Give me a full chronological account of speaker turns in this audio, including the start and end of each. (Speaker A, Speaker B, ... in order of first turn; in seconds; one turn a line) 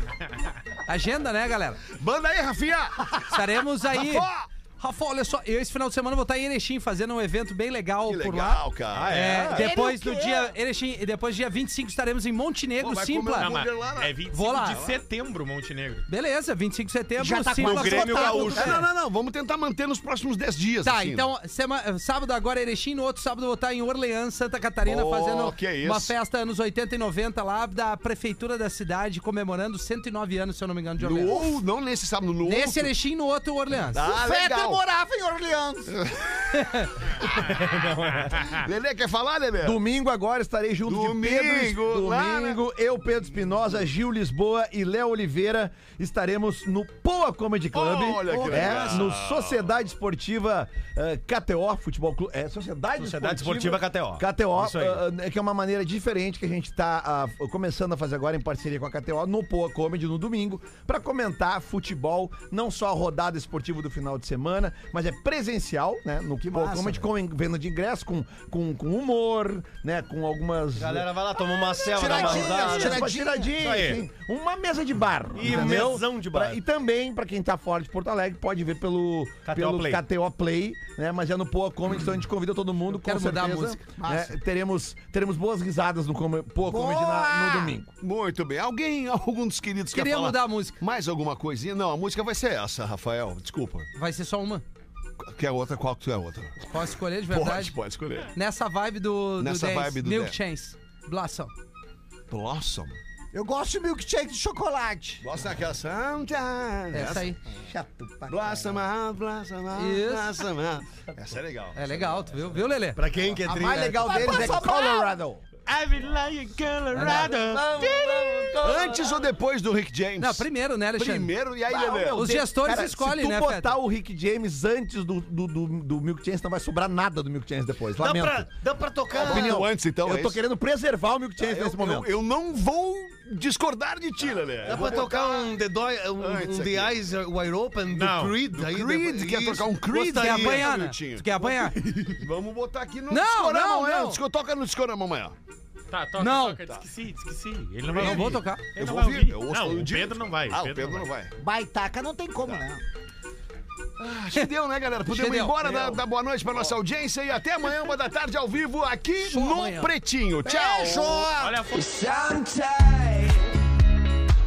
Speaker A: 0.9-1.8
Speaker B: 1.9-4.5
Speaker A: 3.3-13.6
Speaker B: 8.0-9.9
Speaker C: 8.9-9.7
Speaker D: 9.6-10.5
Speaker B: 12.8-15.0
Speaker E: 13.4-16.1
Speaker A: 14.3-14.8
Speaker A: 16.1-18.8
Speaker D: 17.2-18.7
Speaker B: 17.6-21.3
Speaker C: 17.6-18.6
Speaker A: 20.8-31.6
Speaker B: 24.8-26.1
Speaker B: 31.0-32.9
Speaker A: 32.4-34.0
Speaker B: 33.9-34.8
Speaker D: 34.0-36.0
Speaker B: 35.9-36.8
Speaker A: 36.5-36.9
Speaker C: 37.5-38.5
Speaker E: 38.3-38.6
Speaker B: 38.4-39.8
Speaker F: 39.6-71.1
Speaker B: 40.9-42.6
Speaker B: 47.7-49.6
Speaker C: 48.6-48.9
Speaker C: 53.0-55.0
Speaker D: 66.4-67.1
Speaker C: 70.8-74.0
Speaker D: 71.8-73.5
Speaker F: 72.0-87.9
Speaker C: 75.3-76.6
Speaker C: 79.5-80.0
Speaker A: 82.9-83.8
Speaker D: 84.0-84.3
Speaker D: 86.6-87.8
Speaker B: 88.0-93.9
Speaker A: 89.9-90.8
Speaker A: 93.9-94.6
Speaker B: 95.2-96.6
Speaker A: 96.7-97.8
Speaker B: 97.3-98.3
Speaker A: 98.3-101.5
Speaker B: 99.4-100.4
Speaker B: 102.3-103.0
Speaker D: 103.3-105.2
Speaker B: 105.2-107.3
Speaker A: 106.9-107.4
Speaker F: 107.6-108.8
Speaker B: 108.3-112.4
Speaker A: 109.7-110.5
Speaker A: 111.7-113.0
Speaker C: 112.9-114.7
Speaker F: 113.4-115.4
Speaker D: 114.0-115.1
Speaker E: 115.7-117.9
Speaker C: 116.9-117.9
Speaker F: 116.9-119.3
Speaker B: 118.6-122.3
Speaker A: 120.2-121.3
Speaker F: 121.7-128.5
Speaker A: 122.1-123.8
Speaker C: 128.0-129.7
Speaker B: 129.1-130.4
Speaker F: 129.1-132.1
Speaker B: 131.4-135.5
Speaker C: 134.6-140.7
Speaker B: 136.2-137.0
Speaker E: 137.9-138.4
Speaker B: 138.5-141.5
Speaker A: 140.1-141.8
Speaker C: 141.8-142.2
Speaker B: 142.1-145.3
Speaker A: 143.1-144.2
Speaker E: 145.9-151.1
Speaker A: 146.2-146.6
Speaker B: 147.8-151.3
Speaker A: 147.9-148.6
Speaker D: 151.4-152.8
Speaker B: 154.0-161.3
Speaker A: 155.1-155.9
Speaker A: 159.2-159.9
Speaker D: 160.4-161.6
Speaker E: 161.4-161.9
Speaker F: 161.7-163.5